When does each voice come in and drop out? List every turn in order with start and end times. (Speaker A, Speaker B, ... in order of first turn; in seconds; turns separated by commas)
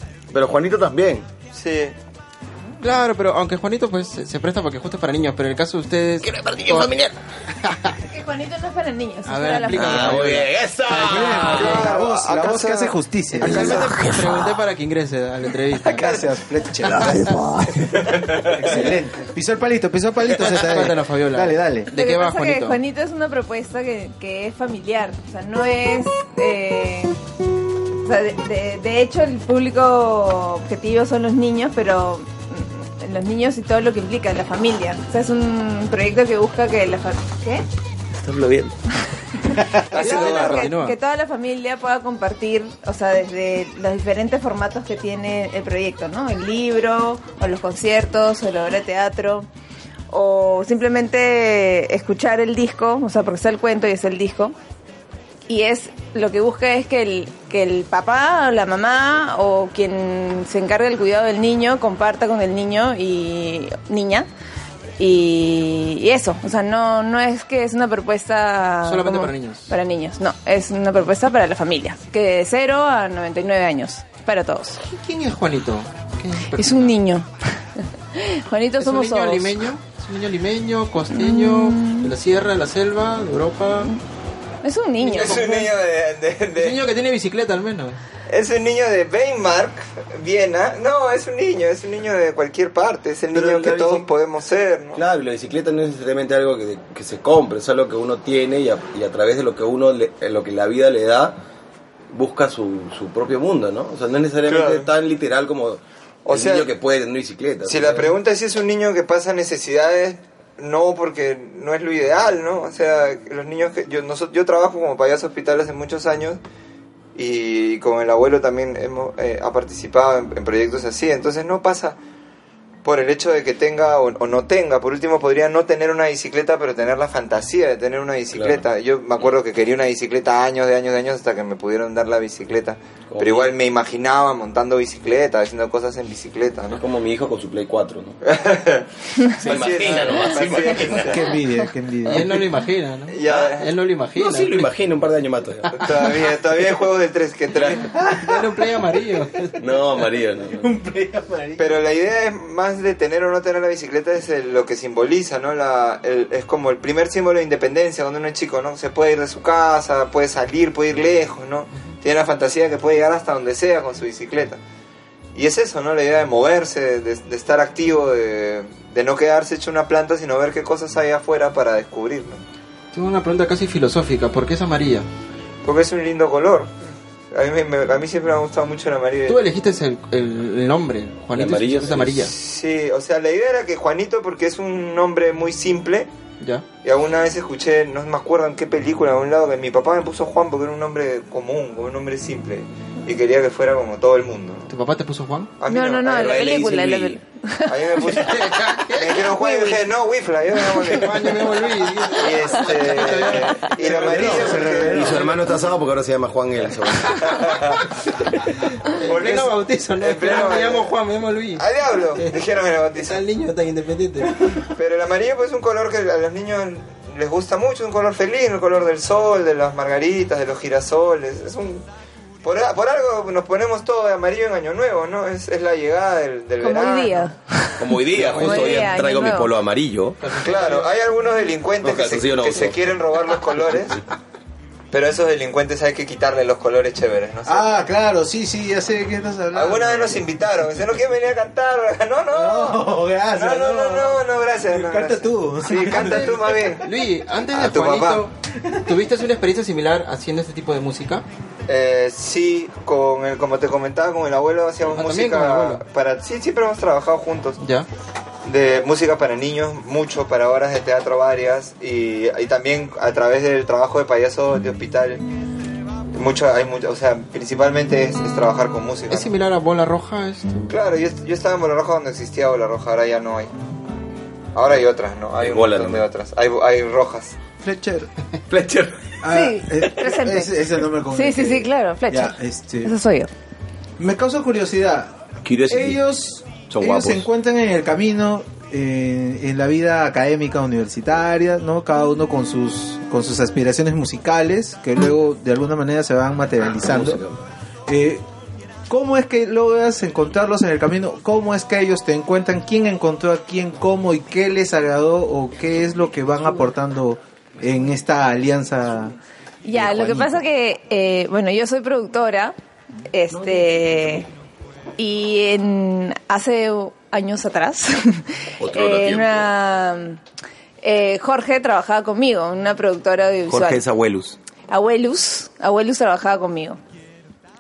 Speaker A: 0.3-1.3, Speaker B: 1.5-1.9, Speaker C: 2.8-6.9, Speaker A: 6.2-7.2, Speaker C: 7.7-7.9, Speaker D: 8.1-10.1, Speaker C: 9.3-11.9, Speaker A: 9.7-11.9, Speaker E: 10.9-13.8, Speaker B: 11.5-13.9, Speaker C: 13.4-16.2, Speaker A: 13.4-14.6, Speaker E: 15.8-17.4, Speaker A: 16.8-18.7, Speaker E: 18.4-21.9, Speaker C: 20.5-22.8, Speaker D: 21.9-27.1, Speaker D: 28.0-37.6, Speaker A: 38.2-38.8, Speaker D: 39.5-49.5, Speaker B: 39.9-40.7, Speaker C: 40.0-41.0, Speaker D: 50.1-54.5, Speaker D: 55.5-64.3, Speaker D: 65.0-74.8, Speaker C: 68.8-69.7, Speaker C: 74.8-76.9, Speaker D: 76.6-77.3, Speaker D: 78.1-79.6, Speaker C: 78.8-83.9, Speaker D: 81.1-82.1, Speaker D: 84.6-85.7, Speaker B: 85.0-86.8, Speaker C: 86.6-88.0, Speaker B: 88.3-95.0, Speaker A: 93.3-94.1, Speaker A: 95.0-101.4, Speaker A: 102.1-108.1, Speaker B: 104.5-104.9, Speaker B: 106.3-106.7, Speaker B: 107.7-116.4, Speaker B: 117.2-122.0, Speaker B: 122.8-136.8, Speaker A: 128.3-128.6, Speaker A: 133.1-133.5, Speaker A: 136.7-138.2, Speaker B: 138.2-141.2, Speaker A: 139.4-141.2, Speaker E: 140.9-142.4, Speaker C: 142.1-144.7, Speaker B: 143.1-143.7, Speaker A: 143.2-143.5, Speaker A: 144.2-145.8, Speaker C: 145.7-146.2, Speaker B: 145.8-148.0, Speaker E: 147.9-148.8, Speaker C: 148.0-149.6, Speaker A: 149.6-150.7, Speaker E: 150.6-151.8, Speaker B: 151.6-164.6, Speaker B: 165.4-172.4, Speaker C: 172.9-175.1, Speaker B: 175.6-176.7, Speaker B: 177.3-179.4, Speaker C: 179.3-182.3, Speaker A: 181.3-182.2, Speaker B: 182.3-186.1, Speaker B: 186.8-194.7, Speaker C: 194.7-195.5, Speaker B: 195.6-196.6, Speaker D: 195.7-198.4, Speaker A: 196.1-197.2, Speaker B: 197.7-205.3, Speaker C: 198.0-199.8, Speaker C: 200.6-204.7, Speaker E: 203.8-205.4, Speaker A: 204.2-207.4, Speaker B: 207.2-207.8, Speaker C: 208.9-212.4, Speaker B: 209.0-210.9, Speaker B: 211.6-213.2, Speaker C: 213.0-214.6, Speaker B: 214.8-221.8, Speaker B: 222.4-227.3, Speaker D: 226.6-227.8, Speaker A: 227.8-230.2, Speaker C: 228.2-228.9, Speaker D: 228.4-229.5, Speaker C: 230.2-230.9, Speaker B: 230.4-234.0, Speaker A: 231.8-232.9, Speaker B: 234.9-237.7, Speaker E: 237.4-240.3, Speaker B: 239.5-246.8, Speaker E: 242.3-246.8, Speaker C: 245.8-248.3, Speaker B: 247.5-248.3, Speaker E: 248.5-248.9, Speaker C: 248.9-251.2, Speaker B: 251.7-257.6, Speaker C: 254.8-255.8, Speaker C: 257.6-257.9, Speaker B: 258.4-265.2, Speaker B: 266.1-269.3, Speaker C: 269.1-270.7, Speaker B: 270.7-273.5, Speaker B: 274.6-277.4, Speaker A: 275.4-276.0, Speaker E: 277.6-278.1, Speaker A: 278.5-279.2, Speaker E: 279.2-282.9, Speaker D: 279.3-280.5, Speaker D: 281.1-283.3, Speaker E: 284.0-285.2, Speaker A: 285.4-286.0, Speaker E: 285.7-297.2, Speaker A: 286.7-287.3, Speaker A: 296.6-297.4, Speaker E: 297.9-298.2, Speaker E: 298.9-309.2, Speaker D: 309.6-312.5, Speaker E: 309.7-310.4, Speaker D: 313.1-314.3, Speaker D: 315.0-320.2, Speaker A: 318.6-319.5, Speaker D: 320.8-323.8, Speaker A: 323.5-324.4, Speaker D: 324.7-326.8